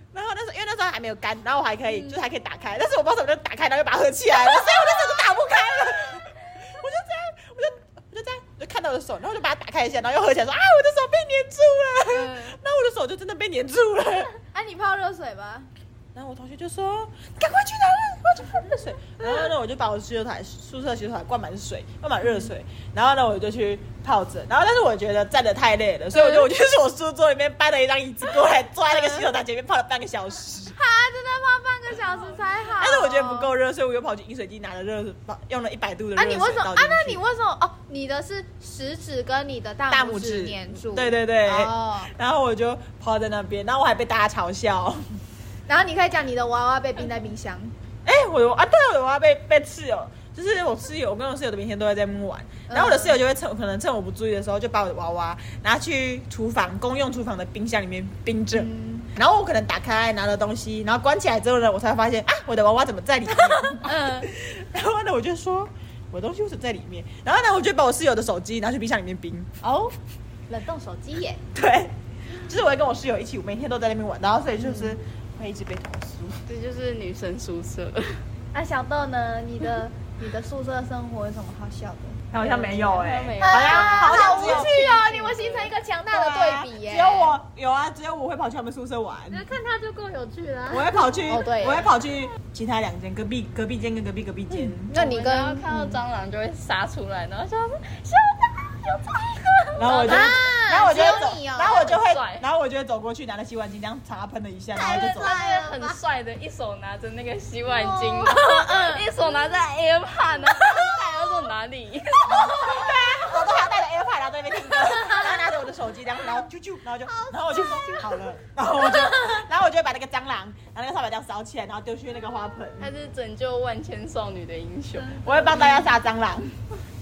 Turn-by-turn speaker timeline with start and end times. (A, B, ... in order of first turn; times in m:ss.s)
0:00.1-0:14.3 A
0:01.9-0:02.2 B
0:04.5-0:06.2 B
0:12.1-0:12.6 B
0:14.5-0:15.7 B
0:16.1-0:30.8 A
0:26.1-0:26.4 B
0:28.9-0:29.3 B
0:30.7-0:33.5 B
0:32.8-0:37.2 A
0:36.2-0:42.1 B
0:39.9-0:45.1 A
0:45.7-0:47.7 B
0:48.0-1:09.5 A
0:52.7-0:53.2 B
0:58.5-0:59.1 B
1:03.8-1:04.3 B
1:09.6-1:09.9 B
1:10.5-1:11.4 B
1:11.5-1:16.4 A
1:14.6-1:14.9 B
1:16.5-1:18.2 C
1:18.5-1:22.3 B
1:22.3-1:29.5 A
1:22.4-1:25.1 C
1:23.4-1:27.4 B
1:29.3-1:31.2 D
1:30.7-1:34.9 A
1:31.3-1:31.9 B
1:34.5-1:36.0 B
1:34.9-1:42.4 C
1:39.8-1:45.3 A
1:39.9-1:41.9 B
1:44.8-1:52.8 C
1:44.8-1:46.0 D
1:47.7-1:48.4 D
1:48.2-1:49.0 B
1:52.3-2:02.9 A
1:57.0-1:58.3 D
1:58.9-1:59.4 D
2:02.8-2:05.6 C
2:05.2-2:06.5 A
2:05.6-2:05.9 B